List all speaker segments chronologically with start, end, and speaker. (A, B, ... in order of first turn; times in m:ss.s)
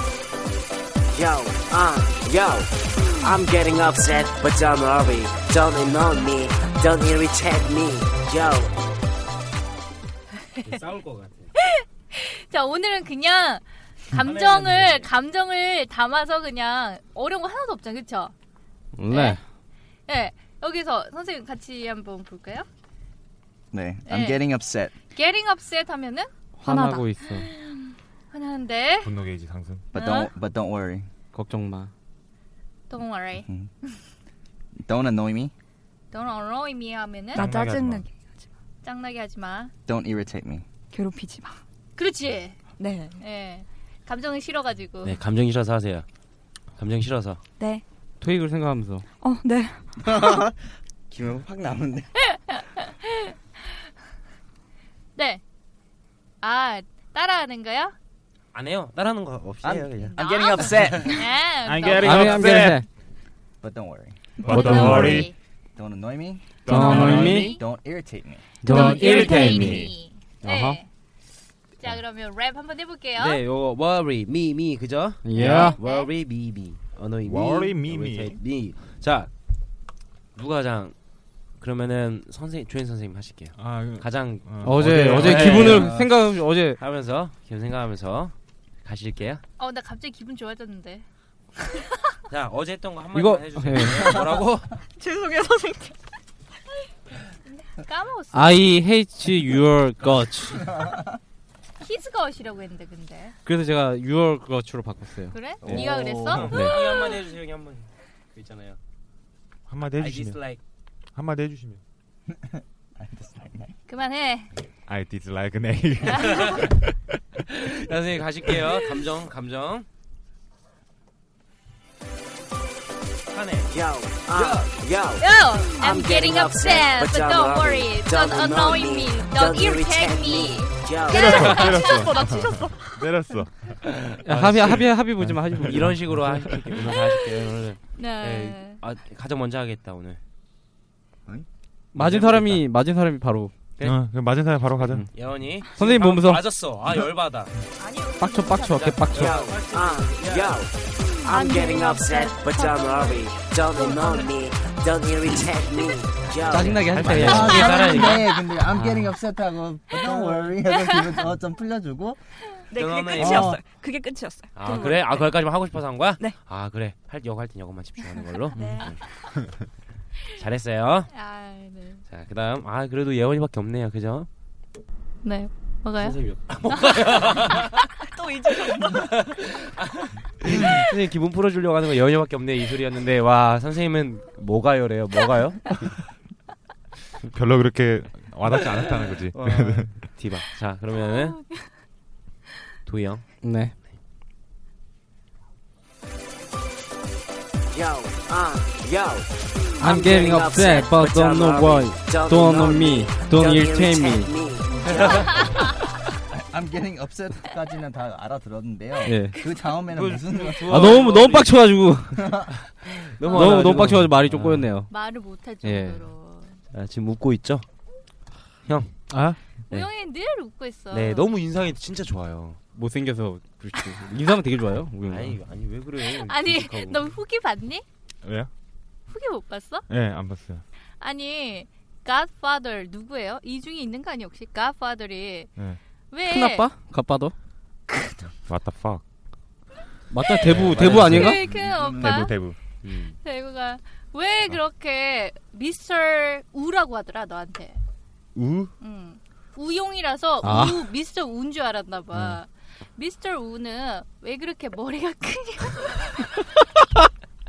0:01.1-0:08.7 A
0:10.6-0:11.5 B
0:11.6-0:18.3 C
0:14.1-0:15.1 B
0:18.9-0:19.4 D
0:19.1-0:19.4 C
0:20.1-0:22.7 C
0:23.7-0:24.9 E
0:24.0-0:24.4 C
0:25.1-0:29.2 C
0:26.6-0:27.5 D
0:29.0-0:29.8 F
0:29.9-0:31.1 E
0:29.9-0:30.3 C
0:31.3-0:31.9 D
0:32.9-0:34.0 C
0:33.4-0:33.7 E
0:34.8-0:35.5 E
0:36.1-0:37.5 C
0:37.3-0:38.4 G
0:37.4-0:38.1 F
0:38.8-0:39.7 C
0:39.9-0:40.6 E
0:40.9-0:41.6 G
0:42.0-0:42.6 C
0:42.8-0:43.2 G
0:43.2-0:45.2 C
0:45.0-0:46.1 B
0:46.8-0:47.4 B
0:48.2-0:49.1 D
0:49.2-0:49.8 G
0:50.0-0:52.1 E
0:52.3-0:53.3 C
0:55.2-0:55.4 C
0:56.4-0:57.9 C
0:58.5-1:00.2 B
0:59.6-1:01.3 E
1:00.1-1:02.5 C
1:01.6-1:02.8 F
1:02.0-1:02.9 D
1:03.6-1:04.2 E
1:04.4-1:05.3 C
1:04.4-1:05.3 F
1:04.5-1:05.3 D
1:05.8-1:08.6 E
1:06.7-1:07.6 F
1:06.7-1:07.6 D
1:06.7-1:07.6 C
1:08.6-1:09.9 D
1:08.6-1:10.9 C
1:08.7-1:09.9 F
1:10.4-1:10.8 D
1:11.8-1:13.4 C
1:13.2-1:19.3 B
1:15.2-1:15.8 D
1:15.4-1:15.6 F
1:15.6-1:16.1 C
1:17.2-1:18.4 F
1:20.4-1:21.0 B
1:21.6-1:26.3 B
1:23.6-1:25.9 F
1:24.6-1:26.8 D
1:25.1-1:26.0 E
1:26.8-1:29.4 B
1:29.6-1:31.1 C
1:32.3-1:34.8 B
1:33.1-1:34.2 D
1:35.0-1:35.9 G
1:37.6-1:38.7 C
1:38.3-1:40.8 D
1:41.8-1:43.4 C
1:43.5-1:45.8 D
1:45.3-1:46.9 C
1:45.6-1:46.6 E
1:45.7-1:48.8 B
1:46.5-1:46.8 D
1:49.7-1:50.4 F
1:49.9-1:50.6 B
1:51.2-1:51.8 F
1:52.3-1:53.8 E
1:53.9-1:54.5 C
1:54.9-1:57.0 F
1:56.2-1:56.7 B
1:57.5-1:59.9 B
2:03.3-2:03.8 B
2:03.7-2:05.2 A
2:05.2-2:12.7 C
2:05.8-2:11.3 A
2:11.1-2:13.8 F
2:11.2-2:11.8 B
2:14.0-2:15.0 B
2:14.2-2:16.0 D
2:15.2-2:16.9 F
2:15.6-2:20.2 B
2:18.0-2:18.8 C
2:21.9-2:23.5 D
2:22.0-2:22.6 B
2:23.8-2:25.1 F
2:25.1-2:27.5 B
2:25.7-2:26.5 D
2:27.8-2:28.8 G
2:28.2-2:29.5 D
2:28.6-2:30.7 B
2:29.3-2:30.7 A
2:31.2-2:34.3 G
2:31.3-2:36.8 A
2:36.3-2:38.3 B
2:36.5-2:37.8 D
2:37.2-2:42.2 E
2:38.7-2:39.1 D
2:42.7-2:45.6 G
2:42.8-2:43.6 B
2:43.2-2:43.6 E
2:44.6-2:49.0 B
2:48.5-2:49.0 G
2:50.4-2:51.1 B
2:51.1-2:52.0 C
2:52.1-2:54.3 B
2:55.2-2:56.2 C
2:56.0-2:57.9 B
2:58.0-2:59.2 G
2:58.8-3:05.9 B
3:07.2-3:10.0 F
3:08.5-3:11.4 B
3:11.0-3:11.7 C
3:12.9-3:13.2 B
3:13.4-3:13.7 D
3:17.7-3:24.9 A
3:19.8-3:24.4 D
3:24.9-3:25.7 B
3:25.1-3:25.6 C
3:26.3-3:30.9 E
3:29.0-3:29.5 D
3:29.9-3:31.6 B
3:30.6-3:32.4 D
3:32.2-3:32.5 E
3:32.8-3:34.7 B
3:33.2-3:33.8 C
3:33.3-3:34.9 D
3:34.9-3:36.6 C
3:35.6-3:36.1 D
3:36.7-3:37.6 B
3:38.7-3:38.9 B
3:39.7-3:41.3 C
3:40.9-3:42.6 B
3:42.8-3:45.4 D
3:45.1-3:47.1 B
3:46.0-3:47.8 C
3:48.2-3:48.5 F
3:49.1-3:49.9 C
3:49.9-3:50.6 F
3:51.0-3:55.5 C
3:56.1-3:56.7 C
3:56.2-3:57.3 D
3:57.9-3:58.3 C
3:58.5-3:59.0 F
4:00.1-4:01.4 D
4:00.4-4:02.4 C
4:00.5-4:01.3 F
4:00.6-4:02.3 E
4:02.0-4:02.6 F
4:03.2-4:07.8 C
4:08.4-4:08.7 F
4:08.8-4:16.4 C
4:10.4-4:10.9 D